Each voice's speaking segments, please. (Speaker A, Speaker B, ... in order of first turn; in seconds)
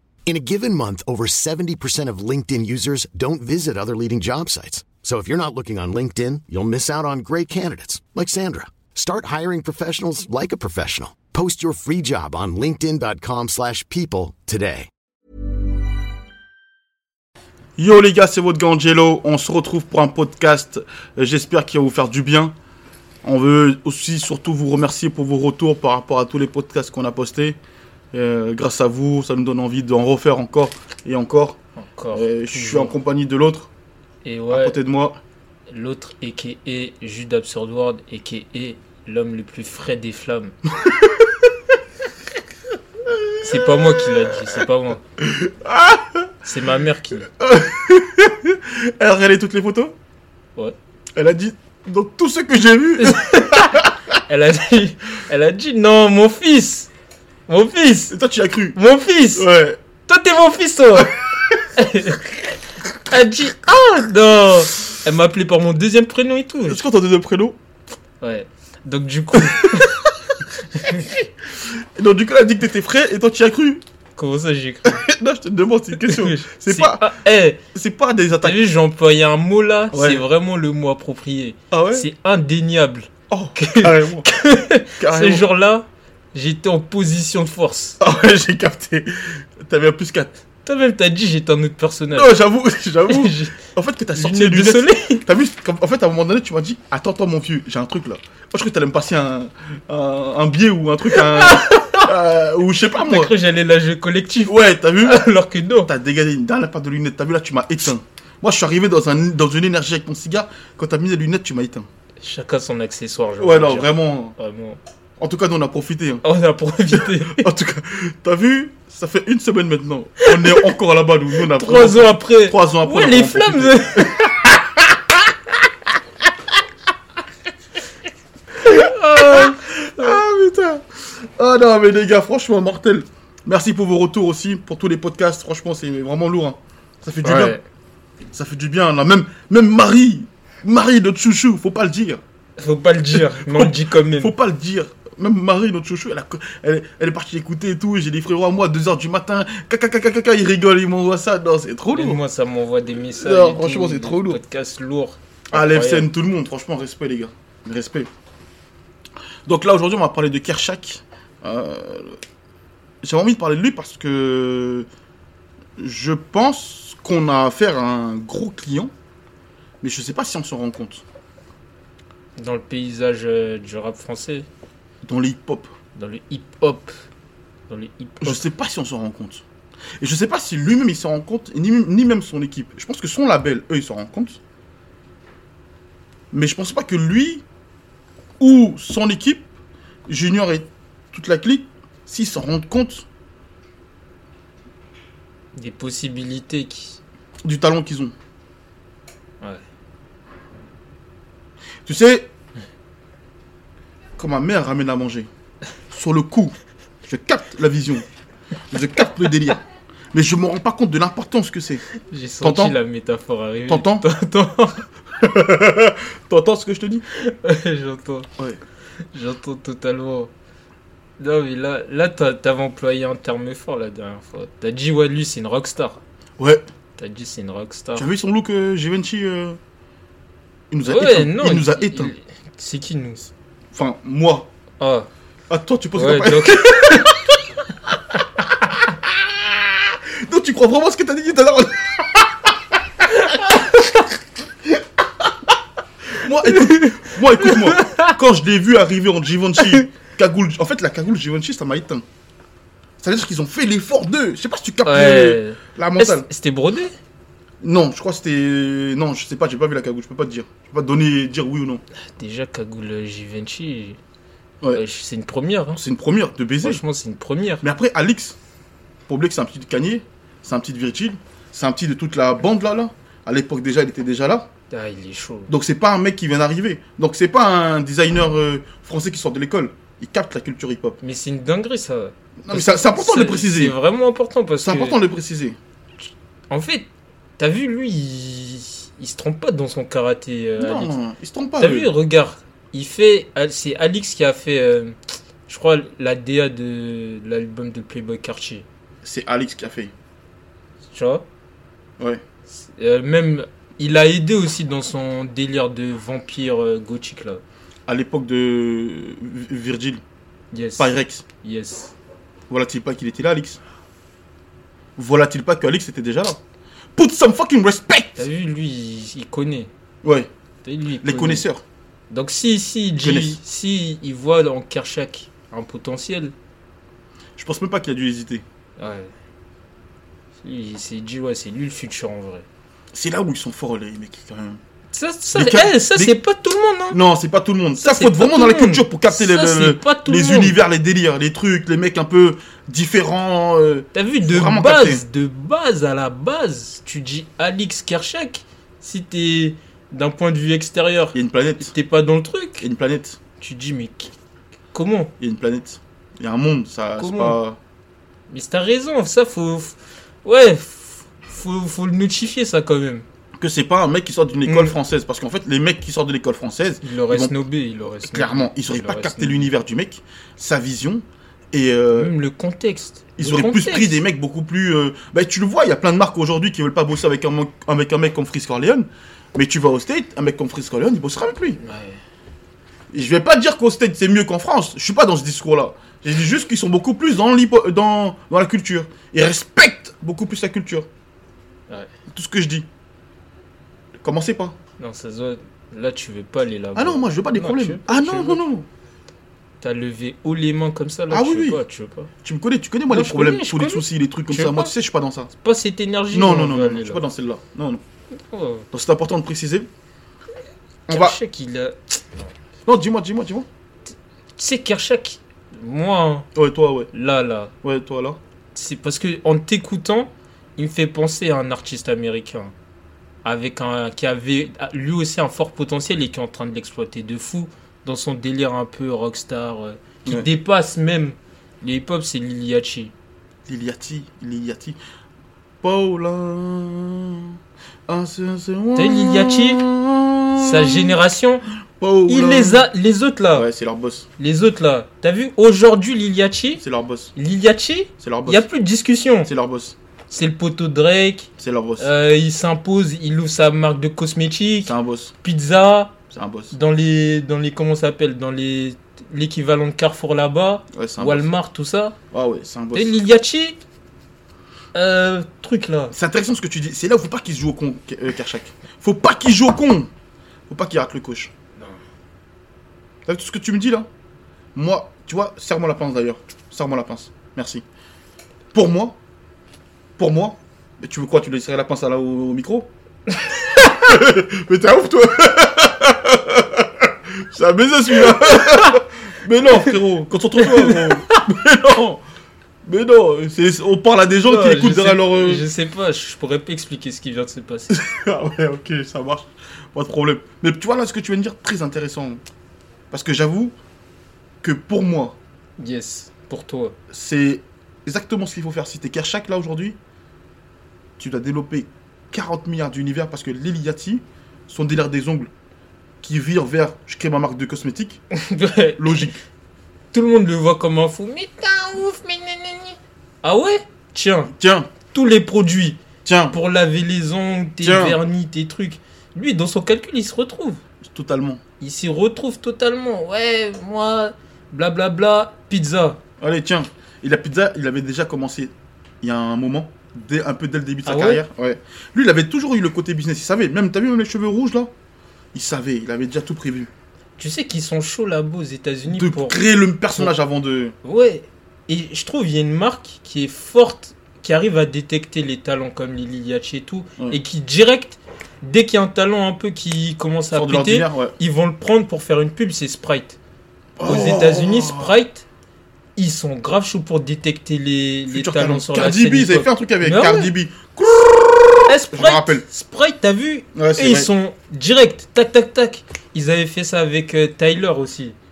Speaker A: 0.2-14.9
Speaker B: 17.8-22.5, 23.2-27.6, 28.1-31.6, 32.1-33.7, 34.5-35.2, 40.8-41.5, 43.0-44.1, 45.2-46.3, 47.4-49.9, 51.1-53.9, 58.1-58.8, 59.3-59.8, 61.1-61.6, 66.7-67.6, 69.5-70.1, 70.8-71.2, 72.0-73.8, 74.8-77.1, 77.7-78.6, 79.9-80.2, 81.7-82.0, 83.3-84.3, 85.0-85.4, 88.0-90.3, 92.1-103.3, 104.5-105.2, 105.9-111.9, 113.4-114.3, 115.2-116.2, 116.9-125.1, 128.7-137.6, 138.3-142.2, 143.1-152.2, 153.1-154.4, 155.5-158.1, 159.4-162.2, 163.0-164.9, 165.8-168.9, 169.8-171.0, 175.0-175.7, 178.2-179.4, 180.0-184.4, 186.3-187.4, 188.4-189.5, 190.1-193.0, 197.4-198.1, 201.8-202.3, 204.2-205.3, 205.9-208.0, 208.7-209.6, 210.1-211.9, 212.4-212.8, 213.7-214.0, 215.2-217.0, 226.4-226.6, 228.0-229.6, 230.7-232.1, 233.7-234.5, 235.5-237.3, 239.0-243.5, 246.1-252.0, 253.0-256.3, 257.6-261.8, 265.8-266.8, 267.6-268.4, 269.1-274.5, 275.5-281.0, 282.4-283.7, 284.6-285.6, 290.6-291.9, 299.0-299.9, 307.9-310.0, 310.8-311.2, 312.5-313.6, 315.0-316.4, 316.9-318.2, 320.0-320.3, 321.0-321.6, 323.0-323.4, 327.4-328.4, 332.9-334.6, 335.3-336.1, 336.9-345.0, 351.1-351.7, 352.6-353.2, 355.2-357.6, 363.4-367.4, 368.0-372.1, 373.2-381.6, 382.9-390.9, 392.1-392.6, 394.0-394.6, 396.7-398.7, 401.1-401.6, 402.2-405.3, 406.1-407.8, 408.7-409.7, 410.9-411.2, 412.6-413.5, 416.4-416.9, 417.6-418.2, 433.4-434.8, 435.6-437.3, 437.9-440.9, 441.8-442.6, 443.3-444.1, 446.6-447.1, 448.0-448.4, 449.2-449.8, 451.4-451.9, 454.6-455.1, 456.1-456.5, 460.7-461.3, 462.1-462.9, 465.9-469.9, 470.5-471.3, 473.1-473.9, 474.5-477.6, 478.5-479.0, 480.0-482.7, 483.5-492.0, 492.6-495.4, 497.7-502.2, 502.9-503.5, 504.4-505.2, 506.9-509.8, 511.0-515.3, 516.0-518.0, 518.8-519.2, 524.3-524.7, 526.0-526.4, 527.6-528.0, 530.8-531.4, 536.2-538.5, 539.0-544.7, 545.3-546.7, 548.9-550.7, 560.3-561.1, 563.8-564.9, 568.1-572.4, 573.5-574.1
Speaker C: 31.8-32.9, 34.2-34.8, 35.7-40.5, 43.4-45.0, 46.4-47.3, 53.0-56.9, 57.5-58.1, 58.7-59.5, 60.0-61.1, 61.7-62.5, 63.1-66.8, 68.2-70.0, 70.7-71.0, 74.2-75.1, 76.0-77.6, 78.4-88.0, 90.6-92.4, 93.1-93.6, 94.2-95.2, 101.1-102.1, 103.0-105.9, 112.2-114.8, 116.2-117.5, 120.2-120.7, 121.5-124.2, 128.6-130.2, 137.2-137.6, 142.6-144.3, 151.9-156.1, 172.4-174.5, 175.9-177.0, 177.7-178.4, 195.5-197.0, 212.1-214.9, 217.1-218.3, 219.1-220.3, 221.2-226.0, 227.0-228.1, 230.8-233.3, 234.8-235.1, 235.9-237.1, 243.2-243.8, 246.4-248.1, 254.8-256.9, 262.0-264.0, 264.7-265.8, 266.6-267.6, 274.7-275.5, 281.0-285.0, 286.5-290.9, 291.6-298.7, 300.9-301.2, 302.5-307.4, 310.5-311.9, 318.2-319.7, 320.6-321.4, 322.1-326.3, 328.8-329.1, 330.4-332.4, 334.9-337.0, 337.8-340.6, 343.9-352.6, 353.4-354.1, 354.7-355.1, 356.9-357.4, 358.3-363.0, 364.4-364.7, 366.8-369.5, 371.9-374.0, 381.6-382.0, 394.8-398.4, 399.6-402.1, 402.9-404.7, 405.4-407.0, 408.2-408.6, 410.9-412.3, 413.9-416.3, 416.9-417.5, 418.5-422.5, 423.2-432.9, 438.8-439.6, 440.4-441.4, 442.1-443.5, 444.2-446.6, 447.1-449.3, 450.1-456.0, 456.5-462.0, 462.7-463.6, 464.7-465.9, 488.1-488.8, 490.4-491.2, 494.2-497.8, 505.6-506.8, 518.1-519.0, 519.9-524.3, 524.9-525.8, 526.3-530.6, 531.6-536.0, 540.9-541.2, 547.2-549.4, 550.8-563.2, 563.8-565.2, 566.0-570.3, 571.7-578.1